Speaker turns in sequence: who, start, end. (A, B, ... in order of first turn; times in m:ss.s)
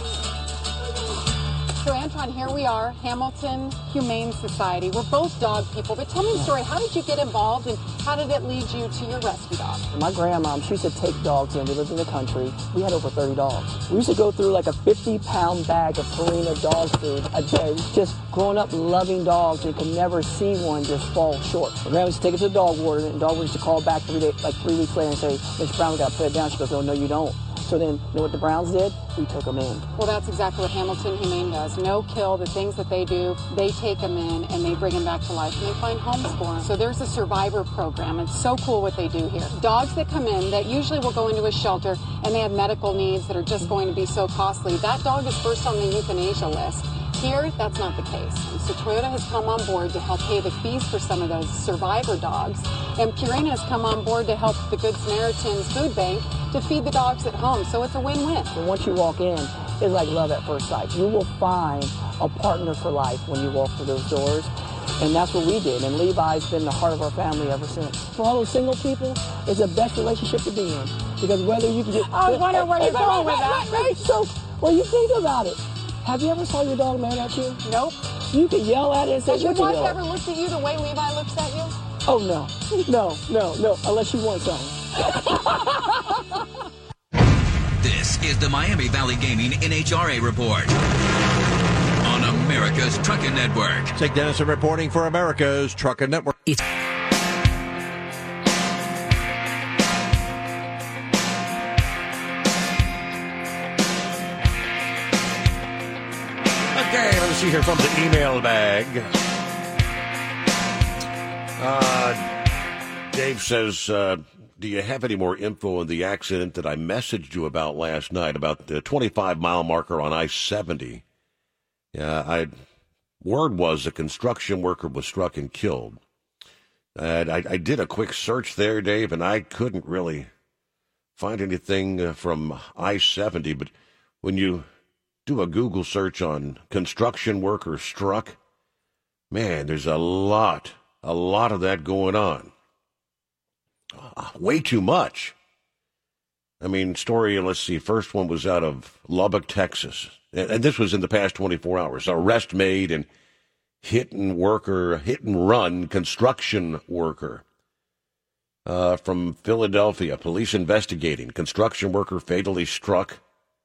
0:01.8-0:09.8 A
0:09.9-0:29.9 B
0:30.0-0:58.5 A
0:58.5-1:17.6 B
1:12.1-1:14.0 A
1:17.6-1:18.1 A
1:18.2-1:20.0 B
1:19.3-1:21.8 A
1:22.1-1:25.4 B
1:27.8-1:30.7 C
1:32.0-1:34.0 C
1:34.0-1:36.6 D
1:46.7-1:49.1 E
1:51.6-1:52.2 E
1:53.1-2:01.0 E
2:01.9-2:02.5 E
2:03.2-2:06.0 E
2:07.0-2:10.3 E
2:11.2-2:13.7 E
2:14.2-2:14.6 E
2:15.3-2:18.4 E
2:19.3-2:22.5 E
2:23.9-2:25.4 E
2:26.6-2:33.1 E
2:33.8-2:37.4 E
2:38.7-2:43.2 E